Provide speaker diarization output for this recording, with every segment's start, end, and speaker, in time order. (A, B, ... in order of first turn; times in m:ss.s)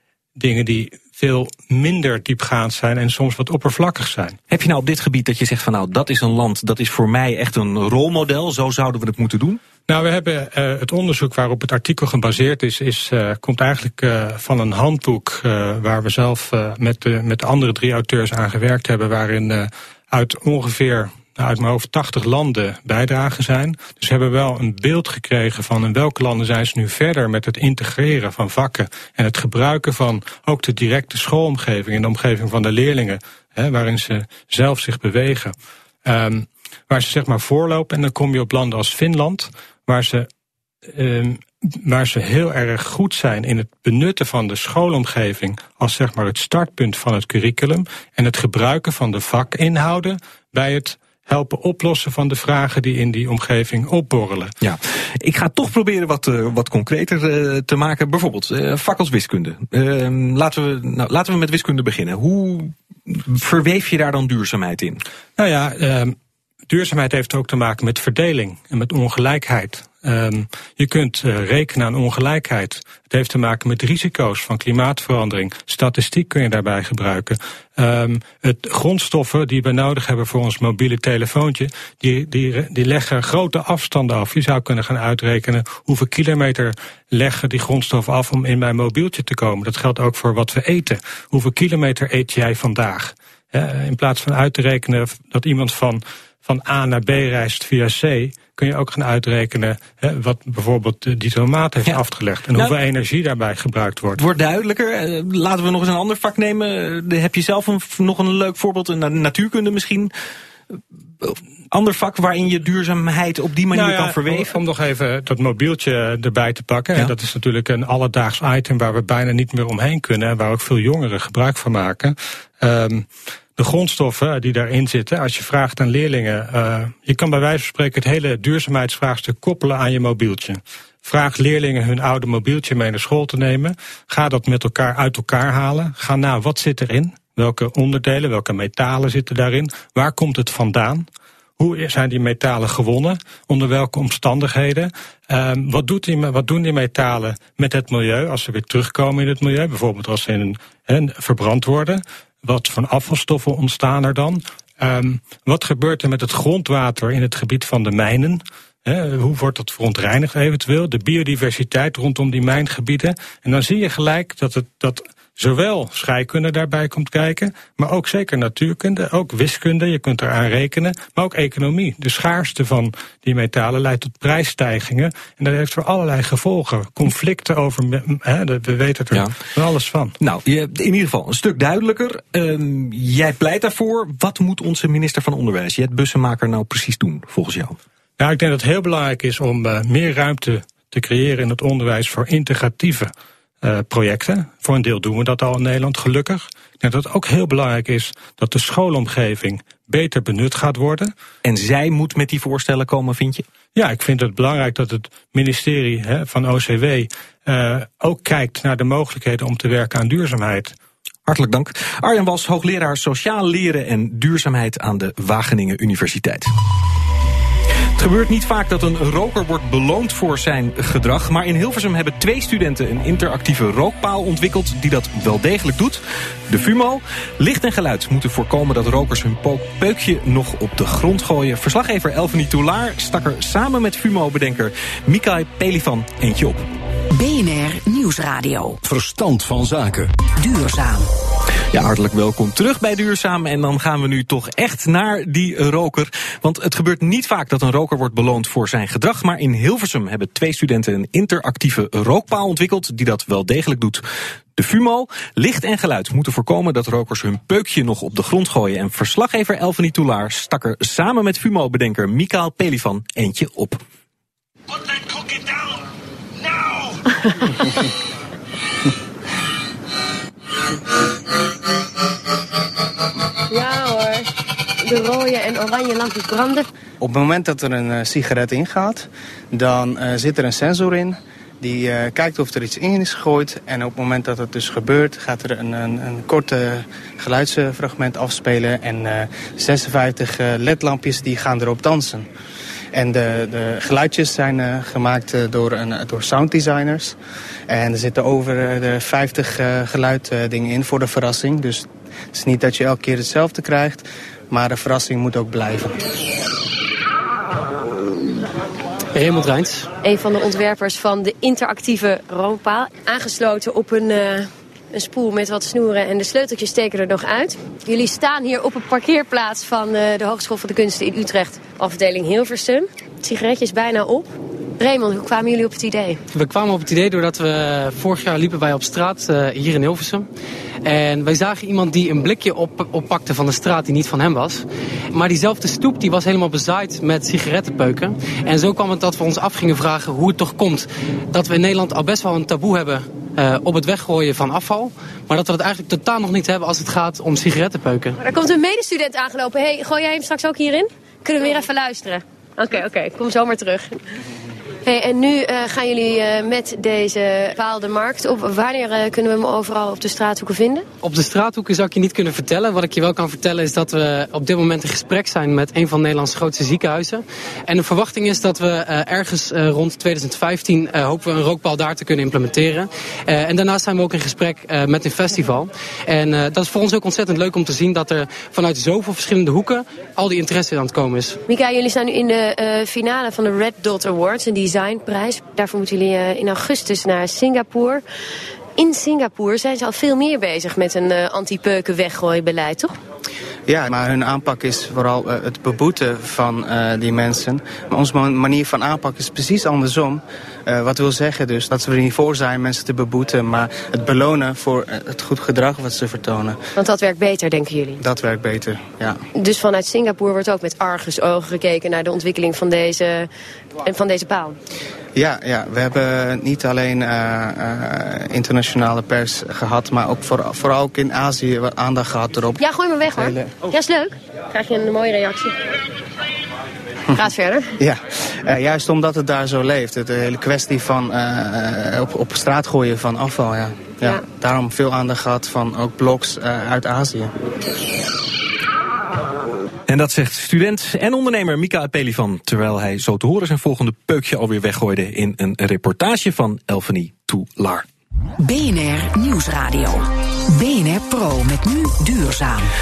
0:00.4-0:04.4 A
0:04.5-0:09.6 B
0:09.9-0:35.5 A
0:36.0-0:40.3 A
0:40.9-0:54.5 A
0:54.6-1:05.0 B
1:05.4-1:06.2 A
1:06.7-1:44.2 A
1:44.2-1:50.1 B
1:51.2-1:54.6 B
1:53.7-2:21.1 A
2:21.6-3:00.1 A
3:00.2-3:07.8 B
3:08.2-3:21.1 A
3:21.4-3:23.4 B
3:23.8-3:30.7 A
3:31.3-3:36.5 B
3:38.0-3:56.7 B
3:57.1-3:58.8 C
4:00.4-4:01.1 C
4:01.7-4:14.0 B
4:14.6-4:23.8 B
4:33.5-4:34.3 D
4:34.8-4:36.7 D
4:37.0-4:52.3 E
4:52.9-4:57.2 E
4:57.7-5:06.1 E
5:09.1-5:09.9 F
5:10.0-5:26.2 D
5:26.3-5:30.3 F
5:30.8-5:48.2 F
5:48.2-5:54.0 D
5:54.8-6:00.9 D
6:01.0-6:21.4 F
6:21.5-6:28.0 D
6:28.8-6:33.0 D
6:33.7-6:46.6 E
6:46.8-6:48.0 D
6:48.0-6:49.2 E
6:49.4-6:53.3 D
6:53.8-6:54.6 D
6:55.2-7:02.6 E
7:02.6-7:05.6 D
7:03.1-7:03.6 E
7:07.2-7:07.8 D
7:07.8-7:17.3 E
7:19.9-7:27.9 B
7:28.4-7:32.7 C